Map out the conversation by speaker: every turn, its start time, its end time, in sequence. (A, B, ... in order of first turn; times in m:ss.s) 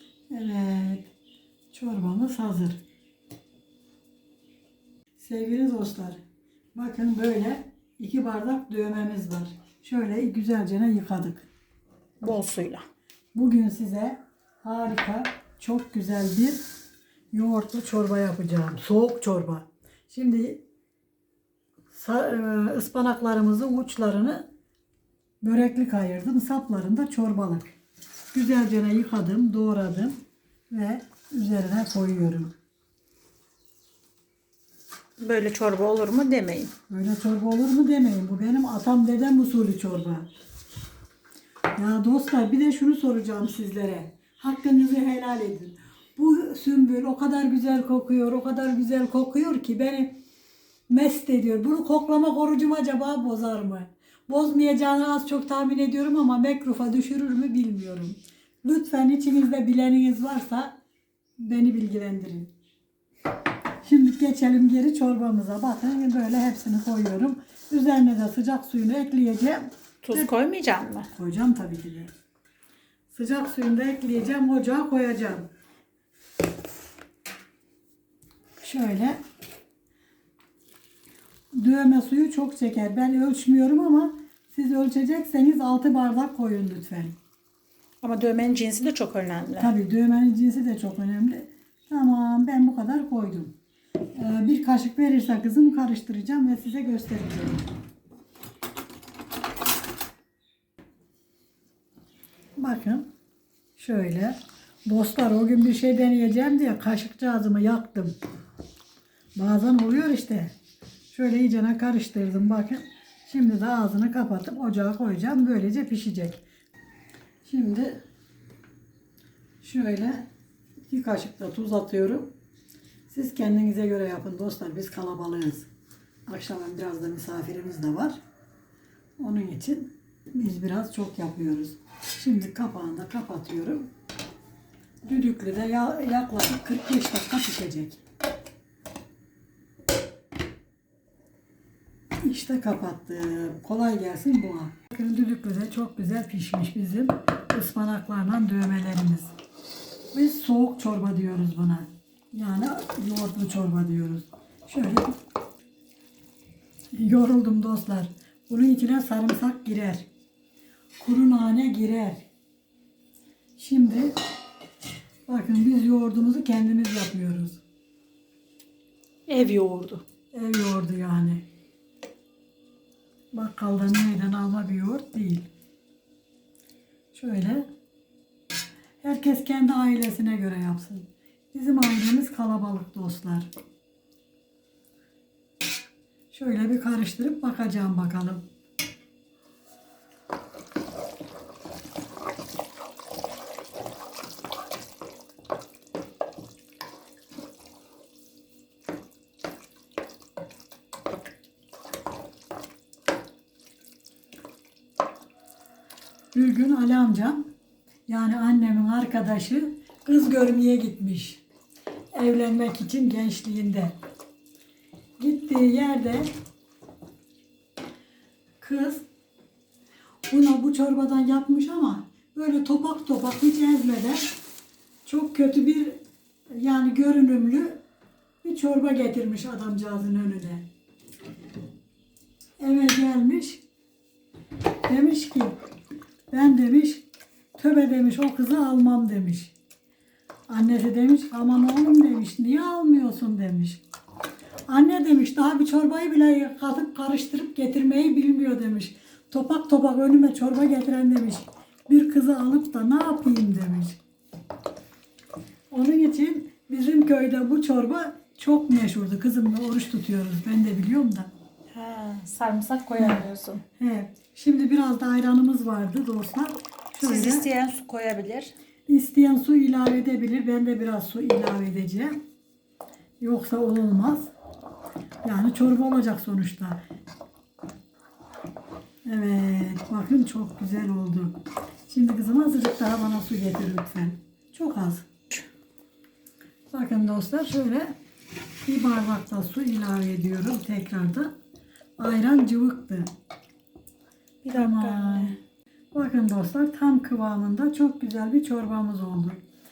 0:00.3-0:01.1 A
0:01.7-0:02.8 A
0:05.2-0:06.2 A
0:06.8-0:11.5 A
0:12.2-0:12.8 B
0:13.3-0:16.6 A
0:17.3-0:20.6 A
0:21.9-0:24.5 A
0:25.4-0:27.7 A
0:28.3-0:30.2 A
0:30.7-0:32.5 A
0:35.2-0:36.7 B
0:36.9-0:40.3 A
0:41.8-0:50.2 A
0:50.9-1:00.7 A
1:01.4-1:02.5 A
1:03.8-1:10.3 A
1:10.0-1:11.1 B
1:11.1-1:12.1 A
1:13.1-1:15.5 A
1:18.6-1:19.2 A
1:21.5-1:27.1 A
1:28.0-1:29.7 B
1:29.6-1:33.5 A
1:34.2-1:37.6 A
1:42.6-1:43.1 A
1:43.8-1:48.2 A
1:49.4-1:50.5 A
1:51.1-1:56.4 A
1:57.4-1:58.0 A
1:59.6-2:00.3 A
2:00.9-2:02.3 A
2:03.1-2:05.7 A
2:06.3-2:08.2 A
2:09.2-2:13.9 A
2:15.0-2:18.0 A
2:22.2-2:29.3 A
2:30.1-2:35.2 A
2:36.9-2:40.1 A
2:41.0-2:42.3 A
2:43.6-2:44.1 A
2:45.3-2:47.6 A
2:49.3-2:50.0 B
2:50.3-2:51.4 A
2:53.3-2:55.5 A
2:57.1-2:57.7 A
2:59.0-3:03.5 A
3:06.3-3:08.4 A
3:26.3-3:27.5 A
3:28.1-3:31.4 A
3:32.1-3:34.0 A
3:35.2-3:36.3 A
3:38.6-3:39.0 A
3:40.3-3:44.3 A
3:45.0-3:46.0 A
3:46.5-3:47.8 A
3:48.4-3:50.7 A
3:52.6-3:53.6 A
3:54.9-3:55.6 A
3:56.3-3:57.0 A
3:57.6-3:59.5 A
4:00.5-4:03.8 A
4:04.7-4:14.0 A
4:15.7-4:21.3 A
4:21.7-4:23.6 B
4:23.0-4:23.2 A
4:23.8-4:27.5 A
4:27.0-4:28.5 B
4:28.9-4:32.2 A
4:33.2-4:34.3 A
4:35.2-4:36.8 A
4:39.0-4:41.4 A
4:41.9-4:45.1 A
4:46.7-4:47.9 A
4:48.6-4:51.3 A
4:52.0-4:53.1 A
4:54.4-4:55.4 B
4:54.5-4:55.4 A
4:55.9-4:59.4 A